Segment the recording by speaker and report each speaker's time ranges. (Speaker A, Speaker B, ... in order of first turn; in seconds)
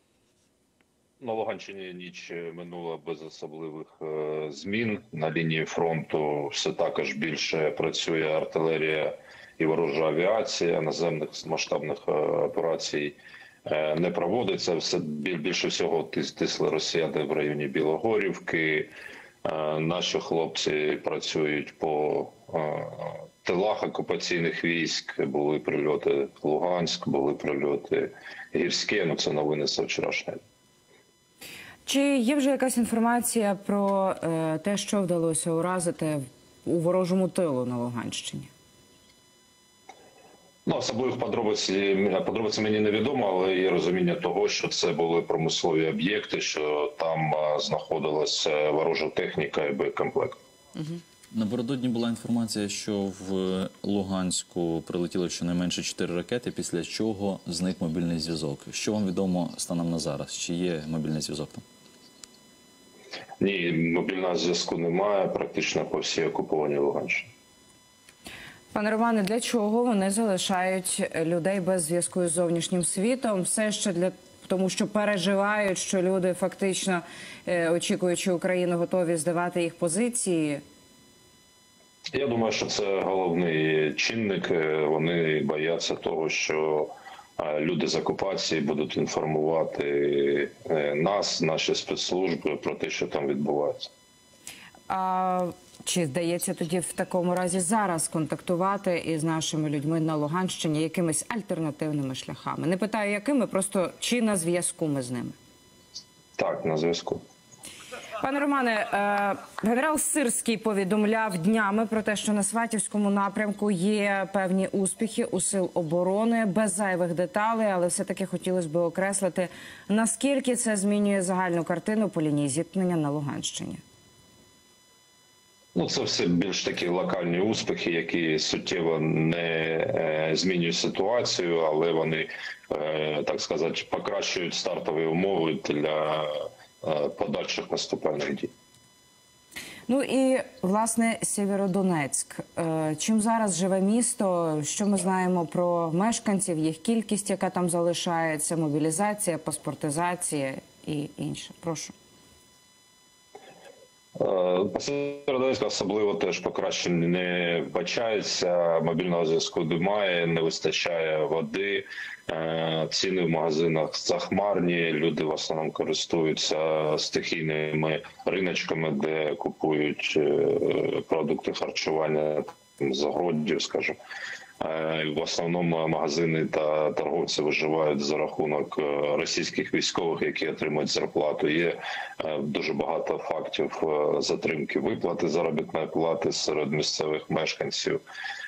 Speaker A: 1.2-18.9, 19.4-30.4, 40.6-50.4, 63.4-67.3, 82.1-93.9, 106.4-107.2, 125.8-138.5, 154.2-174.0, 174.6-188.0
Speaker B: 31.9-38.5, 68.7-80.6, 94.9-105.4, 108.2-123.8, 139.9-151.9
Speaker C: 51.3-61.6